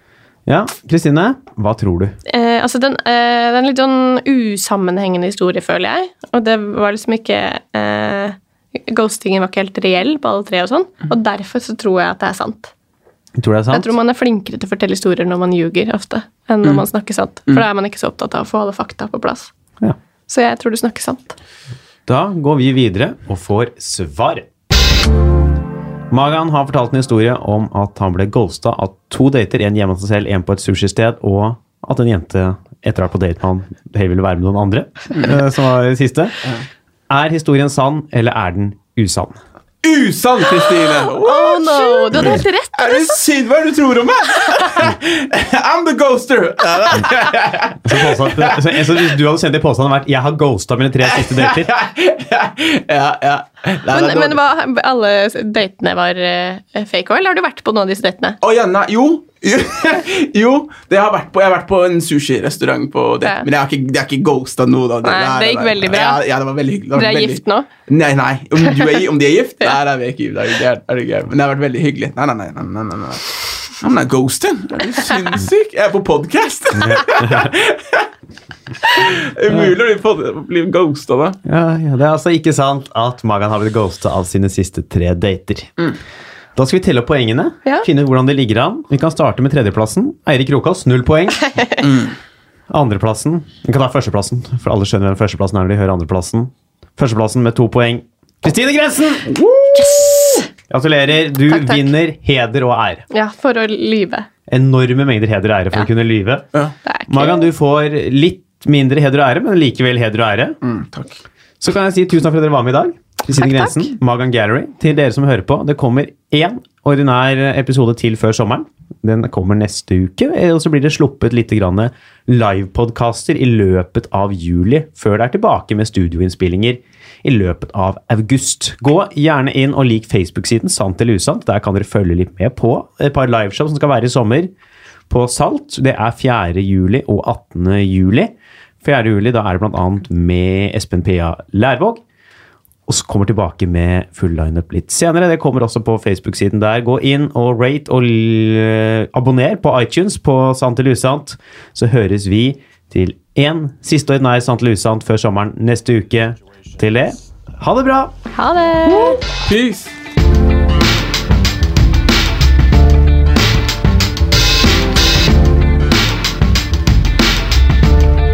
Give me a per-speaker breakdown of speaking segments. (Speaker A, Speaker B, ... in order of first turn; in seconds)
Speaker A: 0.5-2.2, 13.4-13.9, 22.1-24.5, 26.1-36.4, 37.1-39.4, 47.8-51.7, 76.8-77.5, 81.5-85.7, 86.6-91.5, 92.7-99.4, 100.7-103.0, 104.5-106.5, 107.1-110.6, 111.6-134.5, 135.1-142.0, 142.9-158.1
Speaker B: 2.3-12.7, 13.7-19.5, 20.3-21.4, 41.2-43.2, 53.9-58.4, 65.0-66.2, 66.9-67.7, 99.7-100.5, 101.5-101.9, 103.1-104.3, 106.8-107.5, 113.3-113.9, 158.3-159.2
Speaker C: 39.8-49.2, 51.0-54.4, 58.4-78.1, 78.9-81.4, 91.8-92.2, 110.6-111.2, 158.9-159.9